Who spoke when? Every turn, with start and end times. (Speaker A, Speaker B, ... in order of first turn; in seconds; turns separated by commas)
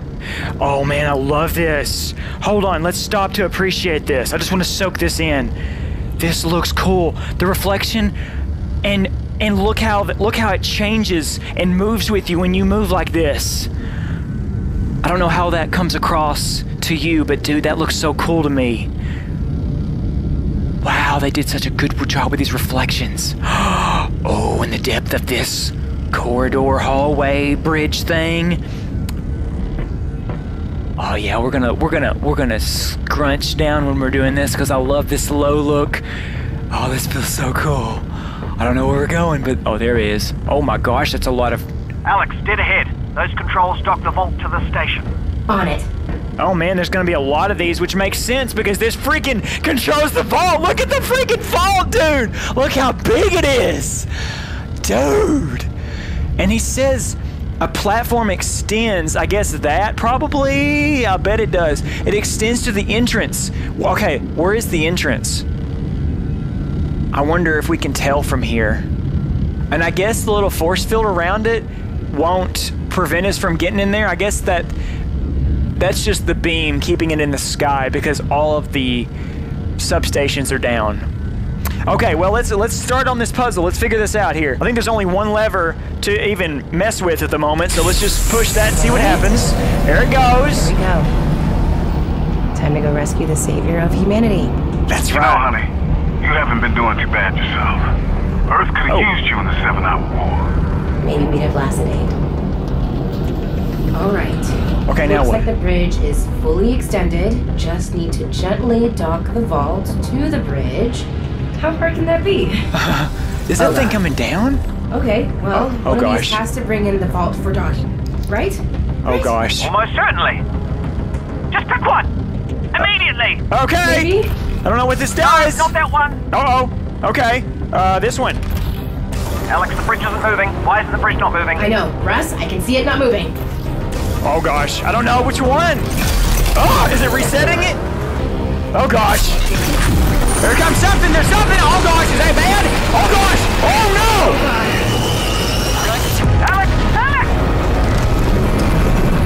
Speaker A: 0.6-5.5, Speaker A: 6.2-8.1, Speaker A: 8.8-13.7, Speaker A: 15.0-18.9, Speaker A: 20.8-28.6, Speaker A: 31.0-36.0, Speaker A: 36.7-38.1, Speaker A: 38.6-41.7, Speaker B: 42.0-45.1, Speaker C: 45.5-45.9, Speaker A: 46.4-54.1, Speaker A: 54.8-55.7, Speaker A: 56.4-65.5, Speaker A: 67.1-68.9, Speaker A: 69.7-74.7, Speaker A: 75.7-79.1, Speaker A: 79.8-81.1, Speaker A: 81.9-90.7, Speaker C: 88.7-89.6, Speaker C: 90.5-91.1, Speaker C: 92.5-94.5, Speaker A: 94.9-95.5, Speaker D: 95.1-95.6, Speaker D: 96.2-97.9, Speaker D: 98.5-100.5, Speaker C: 101.0-102.2, Speaker C: 103.9-112.7, Speaker A: 104.9-105.5, Speaker A: 112.7-114.6, Speaker C: 113.6-114.0, Speaker C: 114.9-119.3, Speaker A: 115.5-116.4, Speaker A: 119.0-119.7, Speaker B: 119.6-120.4, Speaker B: 121.5-122.1, Speaker B: 122.7-123.4, Speaker A: 123.5-125.7, Speaker C: 123.8-124.3, Speaker B: 125.2-126.2, Speaker A: 126.3-128.4, Speaker B: 129.5-131.7, Speaker C: 131.6-133.4, Speaker A: 134.2-135.9, Speaker A: 136.5-137.8, Speaker A: 138.7-139.4, Speaker A: 140.4-144.5, Speaker B: 145.8-147.3